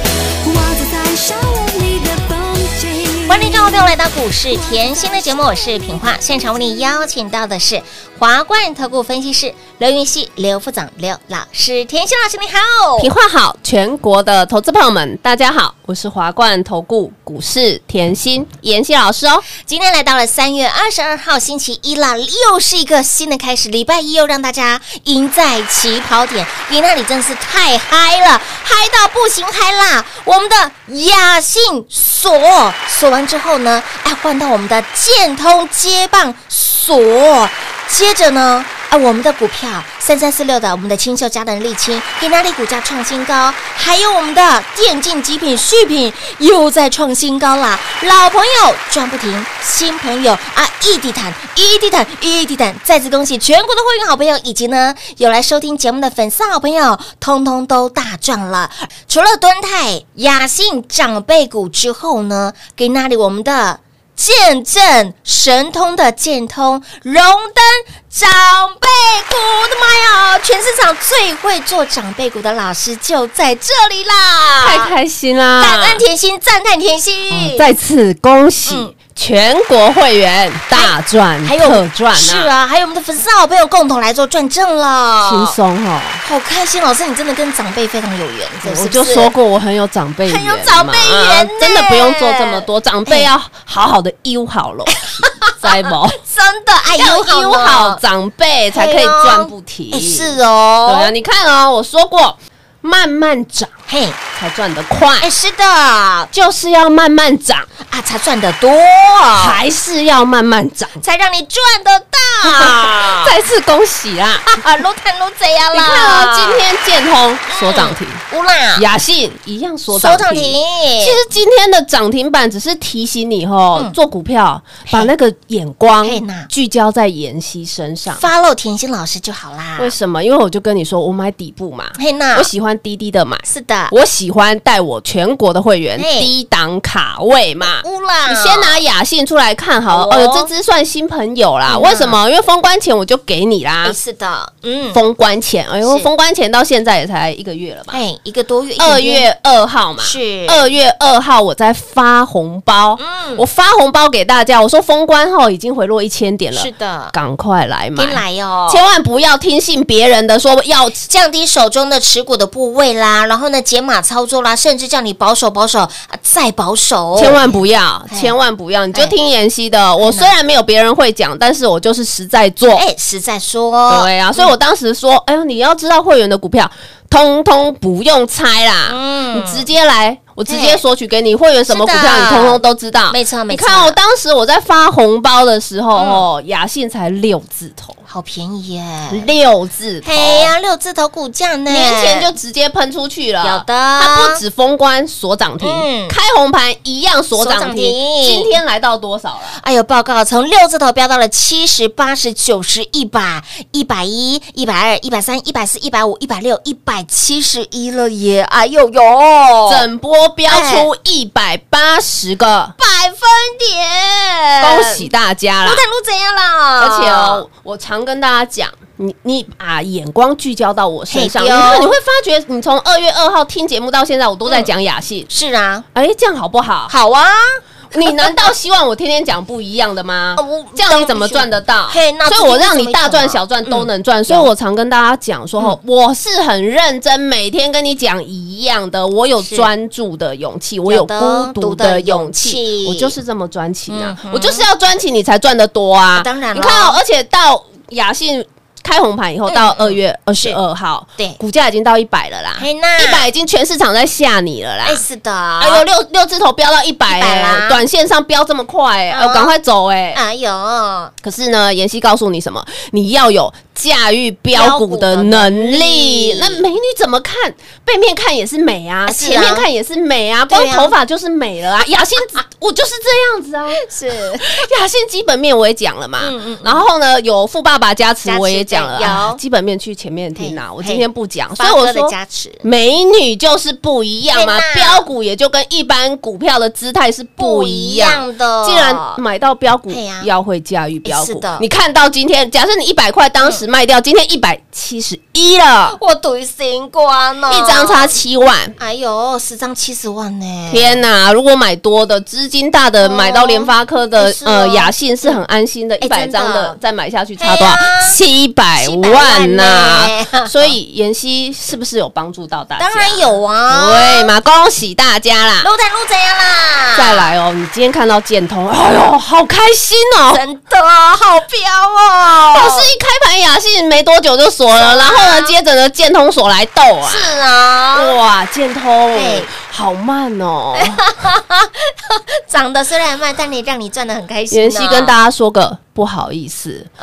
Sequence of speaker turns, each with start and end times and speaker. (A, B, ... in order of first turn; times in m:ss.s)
0:00.4-0:03.7 A
0:03.3-0:13.1 B
0:13.0-0:19.4 C
0:19.6-1:14.9 B
1:14.6-1:16.0 C
1:15.6-1:17.7 B
1:17.3-1:22.5 C
1:18.7-1:18.9 B
1:20.7-1:25.5 B
1:25.2-1:26.2 C
1:26.2-1:29.3 B
1:28.6-1:36.2 C
1:30.3-1:33.3 B
1:35.2-1:38.0 B
1:36.9-1:43.7 C
1:38.7-1:41.1 B
1:43.9-1:44.2 B
1:44.4-1:45.3 C
1:45.2-1:46.3 B
1:46.3-1:47.7 C
1:47.9-1:49.6 B
1:49.4-1:51.0 C
1:51.0-1:53.4 B
1:52.4-1:54.6 C
1:54.5-1:56.6 B
1:55.7-1:58.2 C
1:57.5-1:58.8 B
1:58.7-2:08.2 C
1:59.9-2:01.2 B
2:04.8-2:05.1 B
2:06.0-2:06.5 B
2:08.1-2:09.9 B
2:09.8-2:24.0 C
2:12.0-2:12.5 B
2:13.4-2:13.9 B
2:16.0-2:16.3 B
2:17.6-2:18.8 B
2:19.9-2:20.5 B
2:21.7-2:22.2 B
2:23.8-2:25.0 B
2:24.9-2:28.0 C
2:25.8-2:26.1 B
2:27.9-2:29.2 B
2:28.8-2:41.0 C
2:30.0-2:30.7 B
2:33.0-2:33.4 B
2:36.5-2:37.2 B
2:38.0-2:38.8 B
2:41.0-2:47.6 B
2:47.2-2:52.8 C
2:50.0-2:50.3 B
2:52.7-2:54.5 B
2:53.9-3:08.0 C
2:58.9-2:59.6 B
3:00.5-3:00.8 B
3:01.7-3:04.0 B
3:06.0-3:06.2 B
3:08.0-3:09.3 B
3:09.1-3:10.5 C
3:10.0-3:12.3 B
3:11.7-3:19.6 C
3:13.4-3:14.4 B
3:15.6-3:16.2 B
3:17.4-3:18.6 B
3:19.6-3:29.8 B
3:29.7-3:32.7 C
3:30.5-3:30.9 B
3:32.8-3:35.0 B
3:34.6-3:35.8 C
3:35.6-3:37.4 B
3:36.8-3:45.3 C
3:41.1-3:41.9 B
3:45.3-3:45.8 B
3:45.9-3:46.9 C
3:46.9-3:48.4 B
3:47.9-4:15.0 C
3:50.4-3:54.5 B
3:59.4-3:59.7 B
4:00.9-4:03.1 B
4:03.9-4:04.7 B
4:06.1-4:07.0 B
4:09.5-4:10.6 B
4:12.6-4:13.3 B
4:14.8-4:15.8 B
4:15.6-4:20.2 C
4:17.1-4:17.8 B
4:19.1-4:19.5 B
4:20.1-4:21.1 B
4:21.2-4:33.8 C
4:24.5-4:26.6 B
4:29.0-4:29.7 B
4:30.5-4:31.0 B
4:33.8-4:34.5 B
4:34.4-4:56.0 C
4:36.2-4:36.9 B
4:38.2-4:39.4 B
4:40.4-4:41.0 B
4:41.6-4:42.6 B
4:44.3-4:45.0 B
4:47.4-4:49.2 B
4:49.9-4:50.3 B
4:51.0-4:51.6 B
4:55.9-4:58.1 B
4:57.5-4:58.8 C
4:58.8-5:01.0 B
5:00.7-5:15.7 C
5:03.0-5:05.4 B
5:06.0-5:06.8 B
5:07.4-5:08.2 B
5:08.8-5:10.7 B
5:12.8-5:14.3 B
5:15.6-5:17.3 B
5:16.9-5:20.4 C
5:20.3-5:22.9 B
5:22.5-5:27.3 C
5:24.8-5:25.6 B
5:27.0-5:28.1 B
5:27.9-5:31.1 C
5:29.1-5:29.5 B
5:30.8-5:35.1 B
5:34.5-5:36.9 C